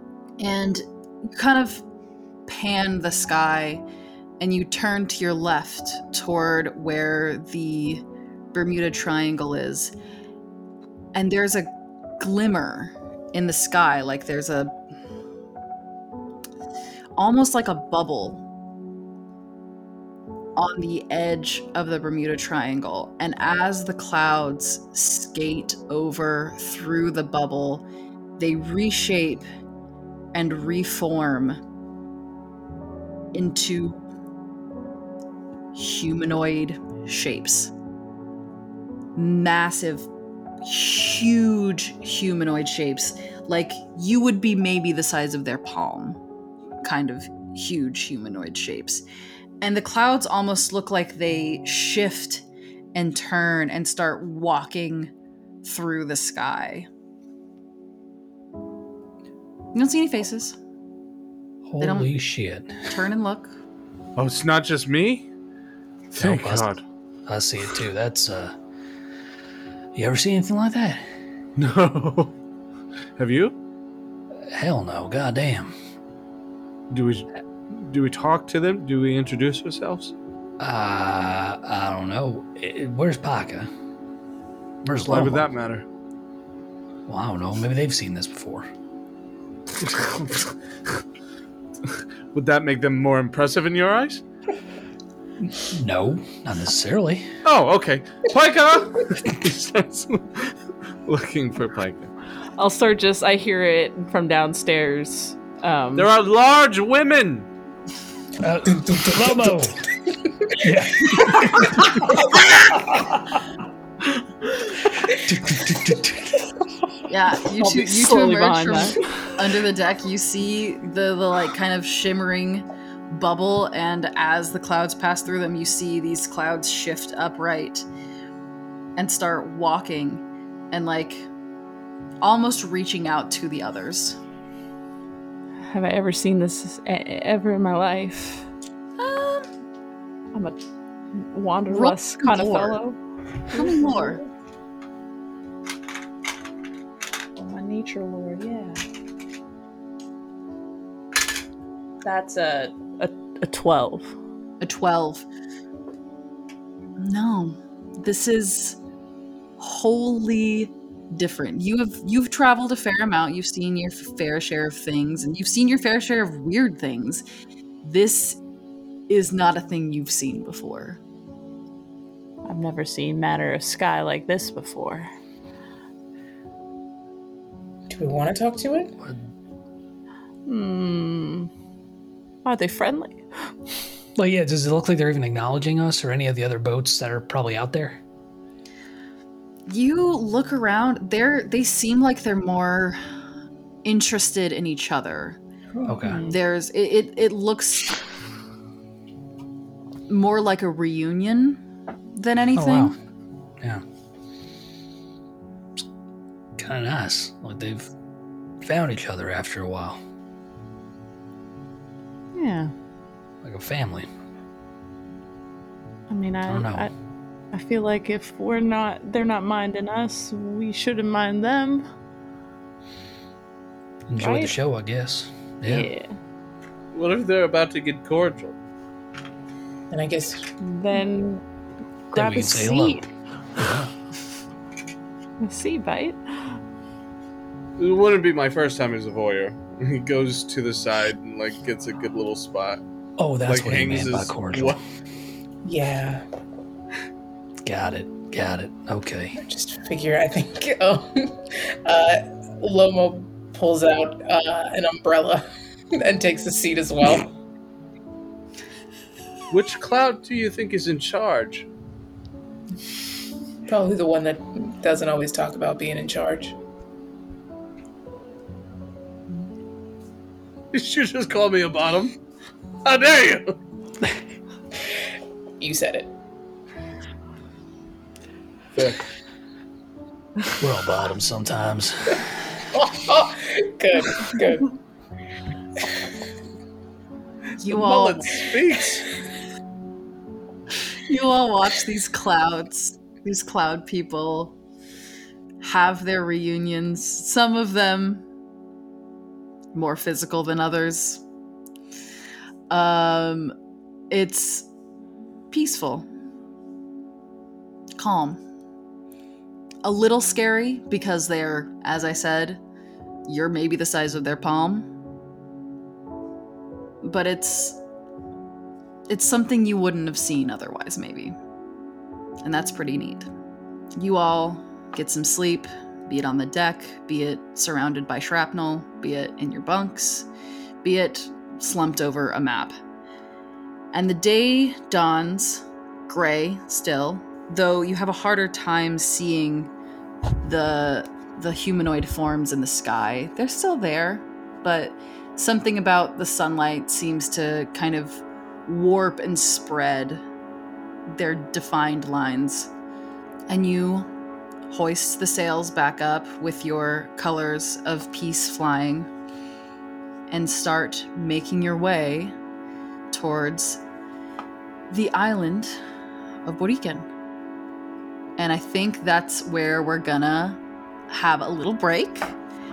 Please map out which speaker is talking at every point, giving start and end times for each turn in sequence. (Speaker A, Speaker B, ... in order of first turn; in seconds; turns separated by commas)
Speaker A: 0.4-1.8, Speaker A: 2.5-3.8, Speaker A: 4.4-9.9, Speaker A: 11.2-14.8, Speaker A: 17.2-18.4, Speaker A: 20.6-27.9, Speaker A: 28.4-29.4, Speaker A: 30.3-31.6, Speaker A: 33.3-34.0, Speaker A: 35.7-37.7, Speaker A: 39.2-40.1, Speaker A: 40.6-46.2, Speaker A: 46.8-49.0, Speaker A: 49.6-55.1, Speaker A: 55.6-56.9, Speaker A: 59.7-60.6, Speaker B: 61.7-62.8, Speaker A: 61.8-62.1, Speaker A: 62.8-63.6, Speaker C: 64.2-65.3, Speaker C: 66.1-66.8, Speaker B: 66.2-66.7, Speaker B: 67.3-68.6, Speaker B: 70.0-71.1, Speaker C: 71.6-72.3, Speaker C: 73.2-73.5, Speaker B: 74.5-75.7, Speaker C: 76.9-80.1, Speaker B: 80.6-83.7, Speaker B: 84.8-85.5, Speaker C: 85.0-85.8, Speaker B: 87.1-88.7, Speaker C: 89.8-90.5, Speaker C: 91.9-94.2, Speaker B: 95.6-97.3, Speaker C: 97.4-100.5, Speaker C: 101.1-102.1, Speaker D: 102.6-106.1, Speaker C: 106.0-107.5, Speaker B: 108.4-109.8, Speaker E: 108.7-111.3, Speaker B: 110.6-113.2, Speaker B: 114.9-116.5, Speaker A: 117.1-127.8, Speaker D: 117.6-119.3, Speaker A: 129.0-131.3, Speaker A: 132.2-134.2, Speaker D: 135.6-138.5, Speaker A: 139.0-139.5, Speaker D: 140.3-140.6, Speaker D: 141.2-143.0, Speaker A: 141.7-142.8, Speaker A: 143.5-144.2, Speaker D: 143.5-144.2, Speaker D: 147.4-148.8, Speaker D: 152.0-154.1, Speaker A: 154.6-155.3, Speaker A: 157.0-158.8, Speaker A: 159.6-167.2, Speaker A: 167.8-168.4, Speaker A: 169.1-171.0, Speaker D: 172.4-175.1, Speaker E: 177.9-178.9, Speaker D: 180.5-181.5, Speaker D: 182.4-183.3, Speaker B: 184.2-188.0, Speaker A: 189.7-193.0, Speaker A: 193.8-195.4, Speaker B: 195.8-196.2, Speaker A: 196.2-198.0, Speaker A: 200.1-201.6, Speaker A: 202.2-202.9, Speaker B: 202.6-202.9, Speaker B: 206.6-207.9, Speaker B: 208.6-210.0, Speaker D: 212.3-212.7, Speaker B: 213.4-214.1, Speaker D: 216.1-216.9, Speaker B: 216.5-216.9, Speaker D: 217.5-221.9, Speaker B: 224.1-225.9, Speaker D: 224.2-224.5, Speaker D: 225.7-226.1, Speaker C: 226.9-228.6, Speaker E: 229.9-230.5, Speaker D: 230.6-231.4, Speaker D: 232.1-233.1, Speaker B: 232.1-233.9, Speaker D: 235.4-236.6, Speaker C: 237.8-242.8, Speaker B: 243.2-244.8, Speaker C: 243.4-244.8, Speaker E: 245.7-246.2, Speaker B: 247.6-249.4, Speaker E: 249.4-257.3, Speaker C: 259.5-261.7, Speaker E: 263.7-266.6, Speaker C: 270.7-272.2, Speaker C: 272.9-273.6, Speaker E: 275.6-276.1, Speaker C: 278.8-279.1, Speaker B: 280.6-282.3, Speaker E: 282.7-284.8, Speaker A: 287.6-288.3, Speaker C: 287.7-289.1, Speaker A: 291.1-294.6, Speaker A: 295.6-298.3, Speaker A: 299.7-301.2, Speaker A: 302.7-303.5, Speaker A: 304.1-304.7, Speaker A: 305.5-306.1, Speaker A: 308.0-308.4, Speaker A: 309.8-312.6, Speaker A: 313.3-314.9, Speaker A: 317.0-317.8, Speaker A: 319.1-321.4, Speaker A: 322.4-323.3, Speaker A: 324.0-330.3, Speaker A: 330.8-332.7, Speaker A: 333.9-339.7, Speaker A: 340.4-350.2, Speaker A: 351.1-352.7, Speaker A: 353.5-354.1, Speaker A: 354.7-359.1, Speaker A: 360.3-362.3, Speaker A: 363.1-363.8, Speaker A: 364.9-365.8, Speaker A: 366.4-367.1, Speaker A: 368.4-372.3